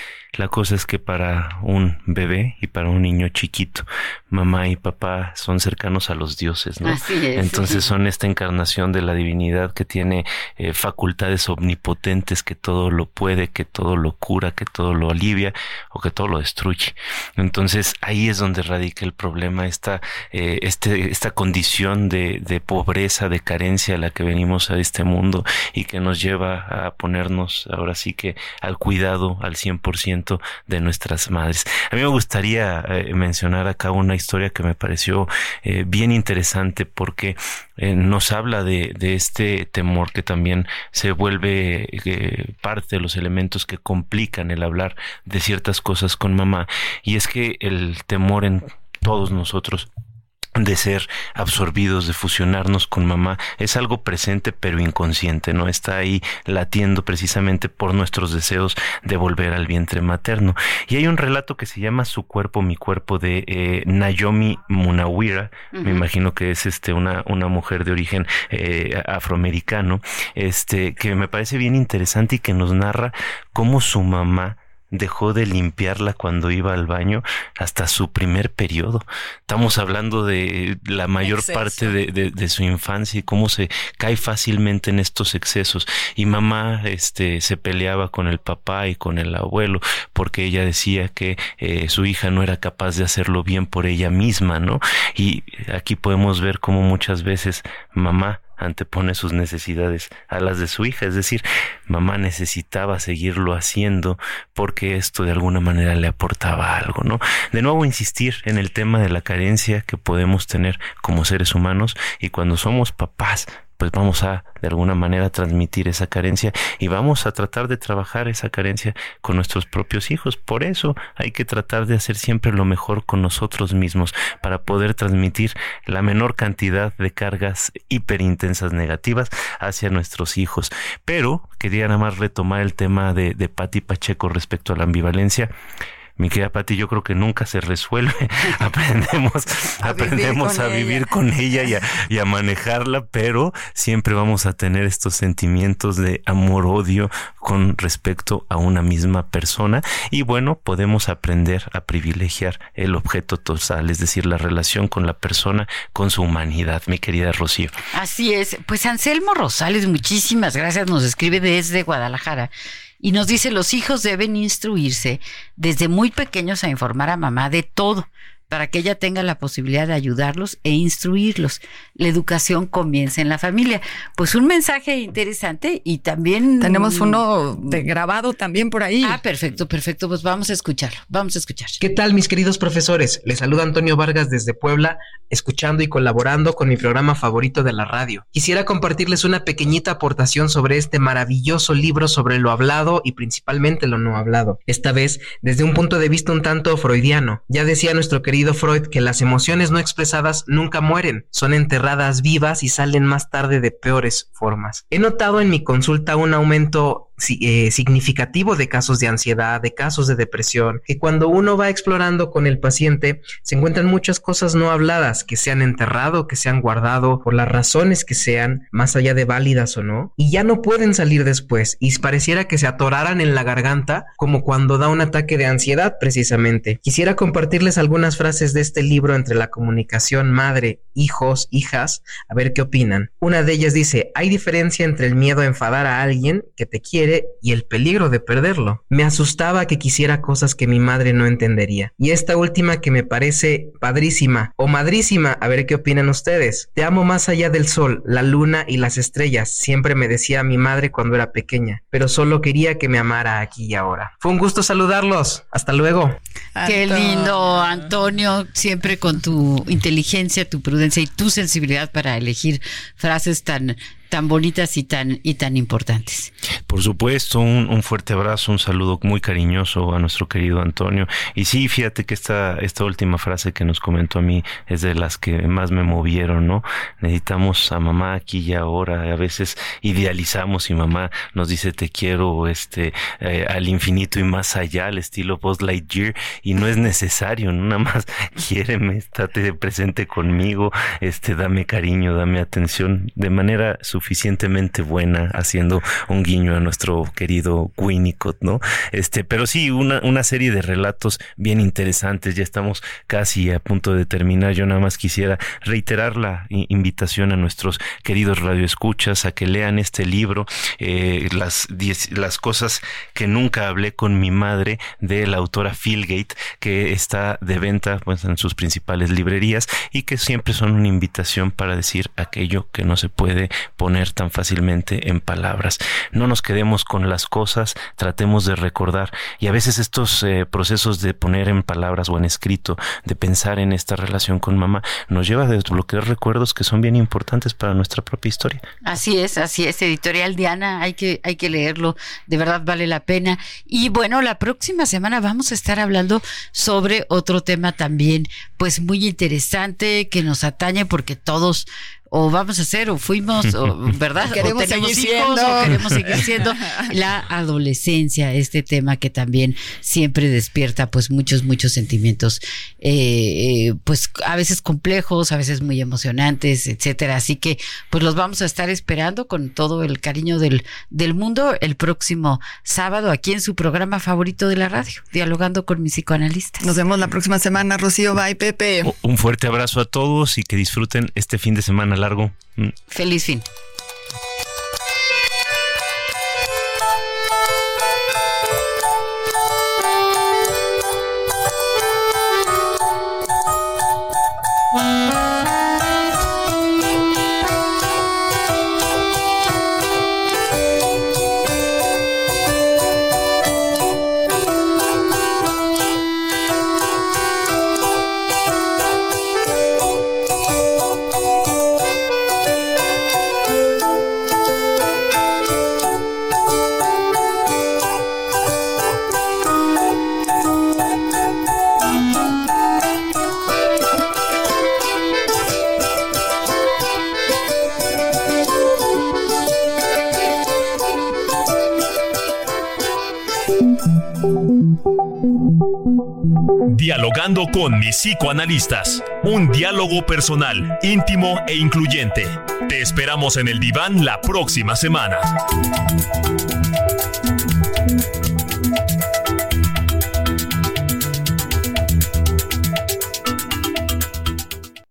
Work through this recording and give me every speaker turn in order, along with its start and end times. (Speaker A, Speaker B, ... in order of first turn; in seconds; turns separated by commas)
Speaker A: 0.3-49.9, Speaker B: 6.8-7.9, Speaker A: 50.6-135.5, Speaker B: 65.7-66.0, Speaker C: 81.2-81.9, Speaker A: 136.2-157.8, Speaker C: 139.8-141.2, Speaker B: 157.9-162.5, Speaker B: 163.0-177.8, Speaker C: 176.6-179.2, Speaker B: 179.0-181.8, Speaker D: 181.8-256.2, Speaker C: 256.6-257.9, Speaker B: 256.6-266.3, Speaker A: 266.7-338.6, Speaker B: 338.8-376.7, Speaker C: 354.3-356.9, Speaker C: 376.6-378.9, Speaker A: 378.8-382.7, Speaker B: 382.9-383.4, Speaker E: 436.7-445.3